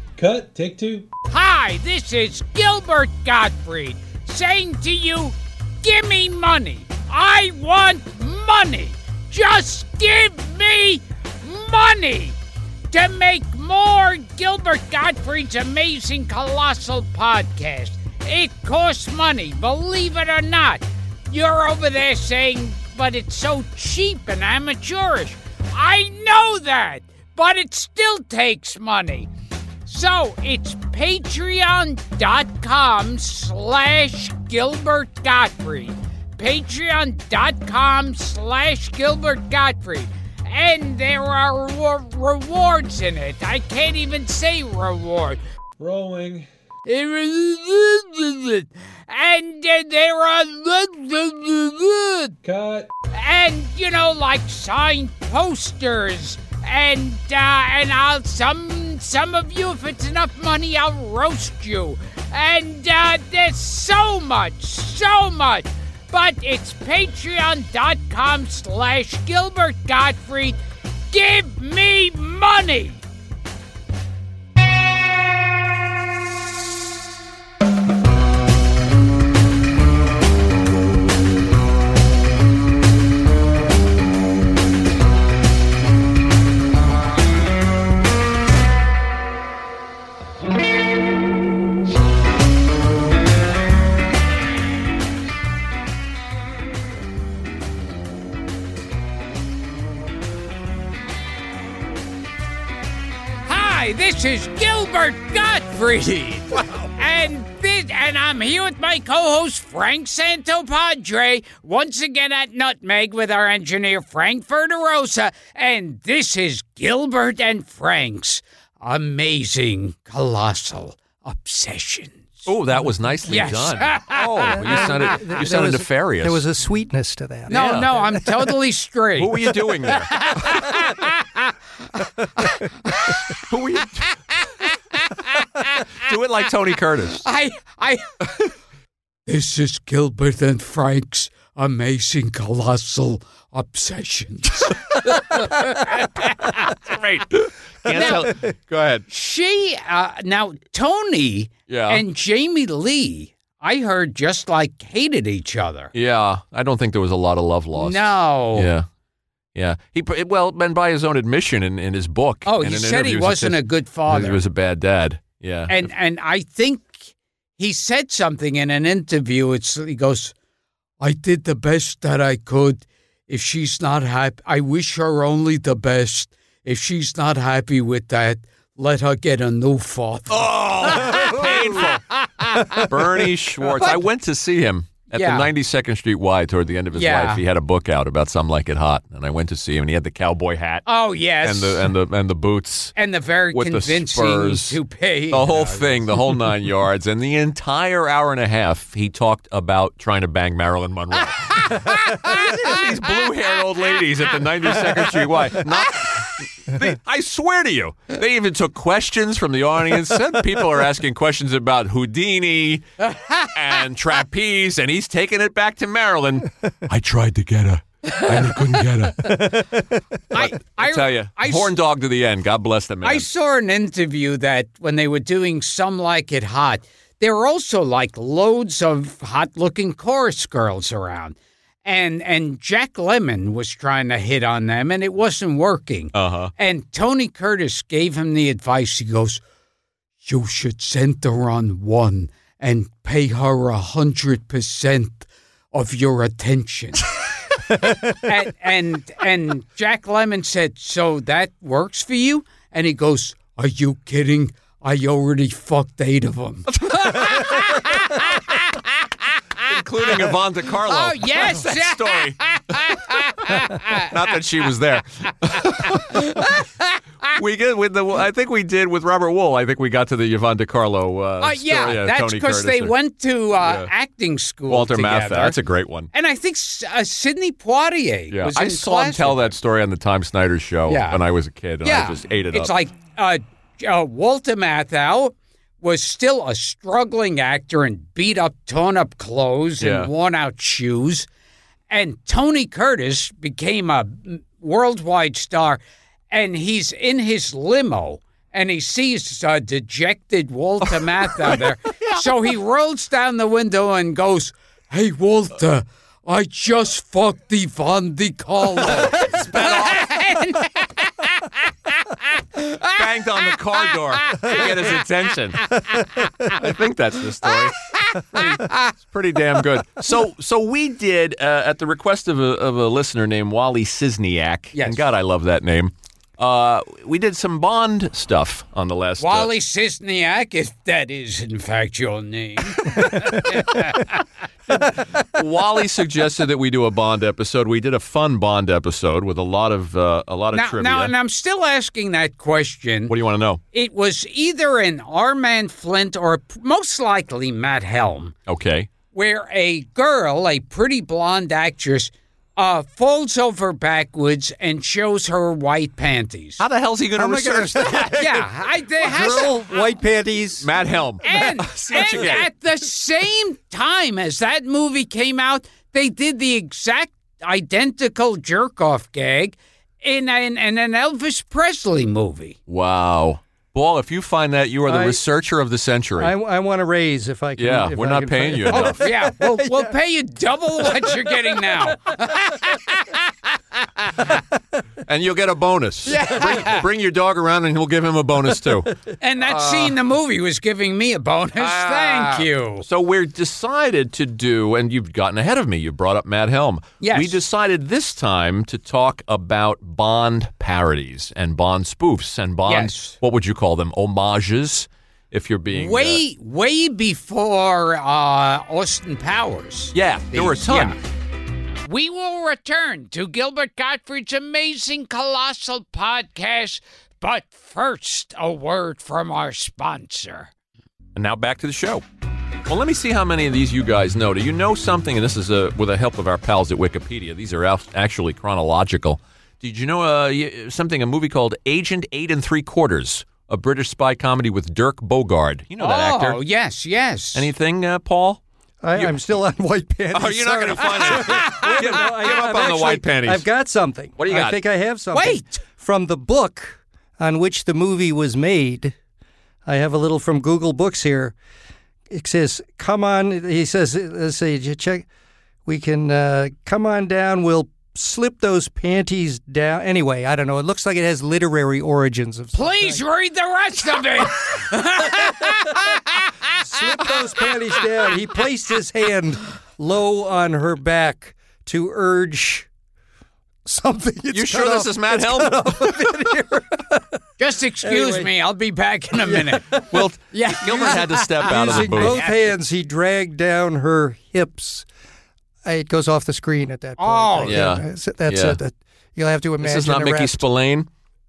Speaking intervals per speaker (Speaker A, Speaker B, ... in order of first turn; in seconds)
Speaker A: 0.2-1.1, 45.8-46.5, 52.4-52.9
Speaker B: 1.3-12.3, 12.9-29.3, 29.9-45.4, 46.9-52.4, 53.1-70.6, 71.1-73.0, 103.4-122.5, 123.3-125.3, 127.5-133.4, 134.4-135.9, 137.2-138.2, 139.3-146.8, 147.9-148.3, 149.1-155.9, 157.8-158.7, 162.4-164.4, 165.7-167.0, 167.6-170.3, 171.0-182.9, 183.8-184.0, 185.1-185.5, 186.9-187.4, 190.8-191.9, 192.9-196.1, 201.3-203.2, 205.0-206.2, 213.0-213.5, 220.3-221.7, 223.0-239.4, 240.2-247.1, 248.1-259.1, 260.1-260.3, 260.8-264.4, 265.5-267.0, 271.4-275.6, 276.1-279.5, 280.9-281.2, 281.8-291.3, 291.9-313.0, 313.9-315.0, 315.7-316.3, 318.1-318.9, 324.7-325.0, 329.2-334.2, 340.5-343.1, 343.7-348.3, 349.1-356.6, 358.1-359.7, 361.2-372.6, 378.7-383.3, 384.0-384.3, 386.1-386.9, 389.2-392.8, 397.0-397.4, 402.6-403.1, 405.7-411.0, 411.9-420.5, 435.8-437.4, 441.0-442.1, 445.1-445.6, 462.5-466.5, 477.4-482.5, 487.0-487.6
Speaker C: 122.5-126.4, 127.5-127.9, 129.2-130.2, 133.5-134.2, 135.9-137.2, 146.7-149.1, 151.7-152.0, 155.9-158.0, 158.5-158.8, 159.5-165.8, 180.3-182.1, 182.7-190.8, 191.4-192.9, 193.5-194.8, 195.3-212.8, 213.4-223.2, 236.1-236.5, 256.9-257.6, 259.6-266.5, 267.2-272.9, 273.6-273.9, 274.7-276.1, 278.3-282.7, 289.8-290.1, 300.9-302.3, 308.8-310.1, 312.9-315.7, 316.5-329.5, 334.7-341.1, 343.1-343.6, 348.5-348.9, 356.6-358.4, 360.6-362.5, 372.7-376.3, 377.6-379.0, 385.0-390.0, 391.6-406.2, 409.9-411.0, 421.1-422.0, 422.6-436.4, 437.3-438.4, 440.1-443.4, 444.2-444.6, 474.3-476.0, 479.9-482.2, 487.4-488.6, 489.6-490.9
Speaker D: 124.4-128.2, 219.2-219.6, 357.1-358.4, 359.0-360.7, 374.9-375.2, 376.2-379.9, 380.9-381.9, 438.8-448.9, 449.6-451.3, 452.1-455.1, 455.6-463.0, 466.6-472.7, 473.6-477.2, 477.8-478.3, 479.2-479.9, 481.4-484.9, 485.6-490.4